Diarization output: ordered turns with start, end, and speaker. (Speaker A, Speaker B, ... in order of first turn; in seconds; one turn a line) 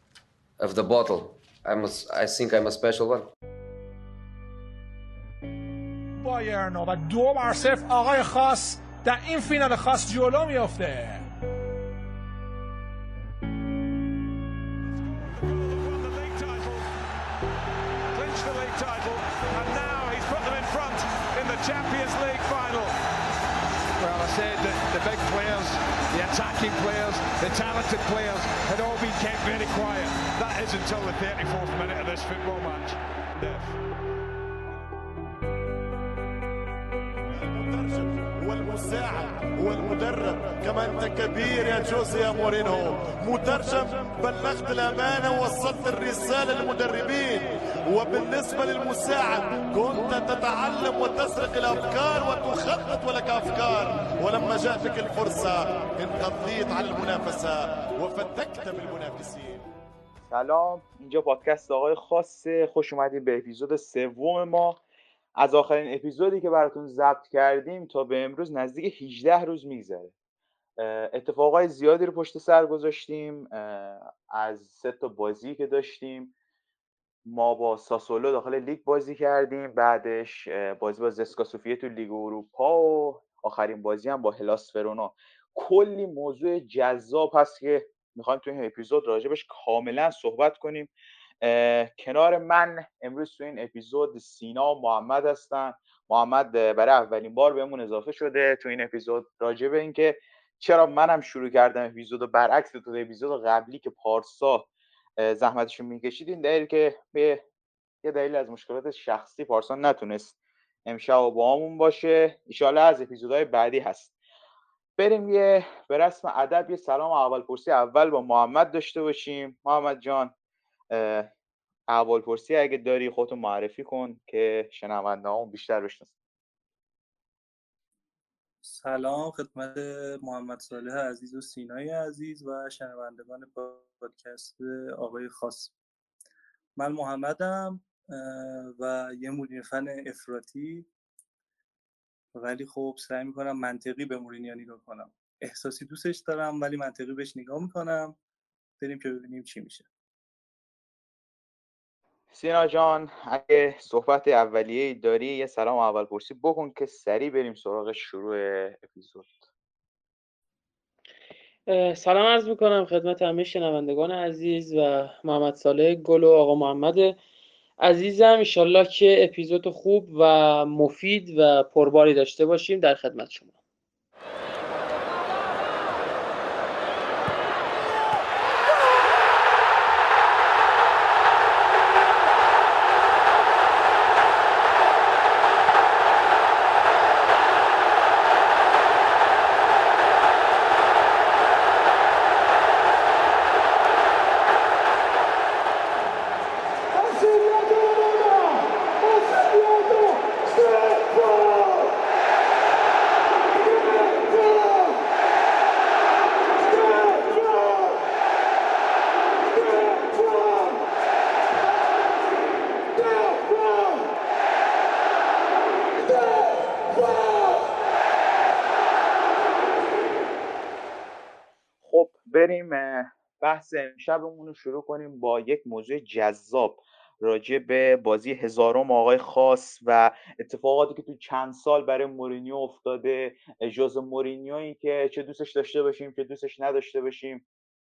Speaker A: 0.6-3.3
Speaker B: 6.2-11.3
Speaker C: 15.1-16.9
Speaker C: 18.1-22.9
Speaker C: 24.0-33.7
Speaker D: 37.3-59.6
Speaker E: 60.3-64.8
Speaker E: 65.4-70.1
Speaker E: 70.8-76.3
Speaker E: 77.2-107.4
Speaker E: 108.0-114.1
Speaker E: 115.0-120.3
Speaker E: 120.9-121.3
Speaker E: 121.9-126.1
Speaker F: 128.6-135.7
Speaker F: 136.8-140.9
Speaker F: 142.4-148.2
Speaker F: 148.8-149.9
Speaker E: 152.3-159.4
Speaker G: 161.7-167.2
Speaker G: 167.8-173.5
Speaker E: 221.8-237.4